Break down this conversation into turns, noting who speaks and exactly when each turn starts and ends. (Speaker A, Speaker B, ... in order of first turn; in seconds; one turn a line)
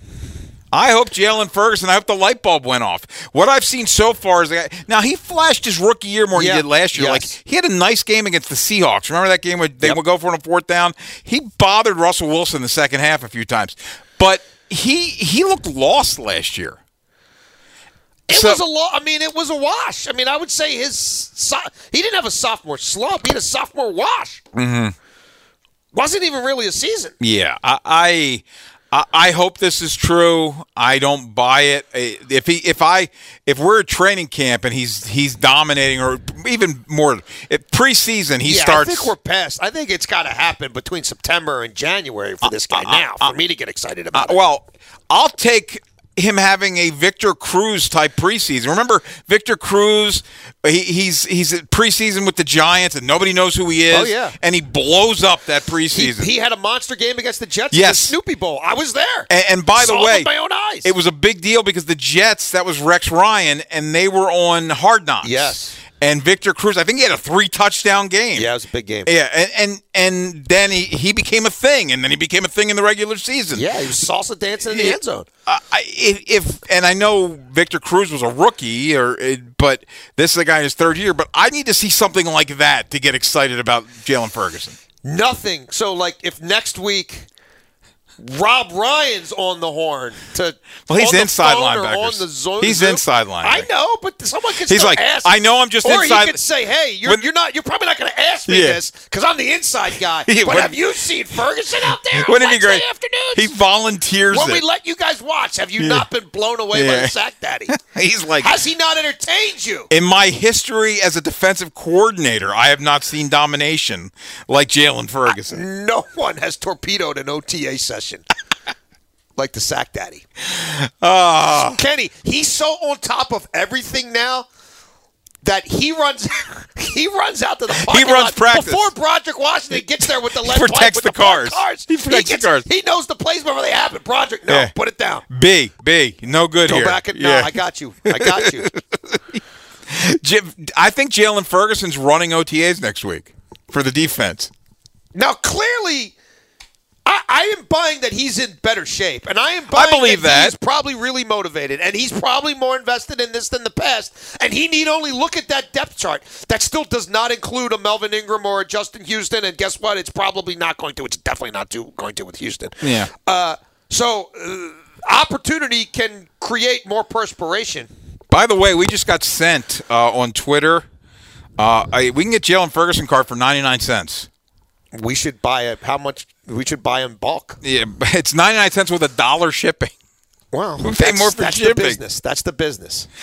Speaker A: 0.7-16.8
Speaker B: 6.3-7.3
Speaker B: 18.3-24.4
Speaker A: 18.3-18.6
Speaker A: 24.6-24.9
Speaker B: 25.9-27.1
Speaker A: 27.2-39.1
Speaker B: 38.5-44.4
Speaker A: 42.4-43.4
Speaker A: 44.1-56.3
Speaker B: 53.9-54.4
Speaker B: 55.9-60.9
Speaker A: 57.7-58.1
Speaker A: 59.3-68.5
Speaker B: 65.2-65.8
Speaker B: 68.3-69.1
Speaker A: 69.0-73.7
Speaker B: 73.5-75.3
Speaker A: 74.6-84.8
Speaker B: 85.0-87.3
Speaker B: 88.2-103.5
Speaker A: 90.9-93.7
Speaker A: 94.7-96.4
Speaker A: 98.5-98.8
Speaker A: 100.2-100.8
Speaker A: 102.1-104.6
Speaker B: 104.3-107.8
Speaker A: 105.8-106.1
Speaker A: 106.7-107.2
Speaker A: 107.7-108.5
Speaker B: 108.4-109.9
Speaker A: 109.9-115.6
Speaker B: 115.5-118.3
Speaker B: 119.4-120.2
Speaker A: 120.5-121.8
Speaker B: 121.6-124.5
Speaker B: 125.4-135.2
Speaker A: 127.7-128.9
Speaker A: 129.8-132.7
Speaker A: 134.5-134.7
Speaker A: 135.3-144.5
Speaker B: 136.7-138.7
Speaker B: 145.1-146.2
Speaker B: 147.1-167.9
Speaker A: 149.7-150.6
Speaker A: 162.8-163.1
Speaker A: 168.3-170.9
Speaker A: 171.6-174.3
Speaker B: 174.9-177.6
Speaker A: 177.6-179.9
Speaker B: 180.5-183.1
Speaker A: 180.8-182.0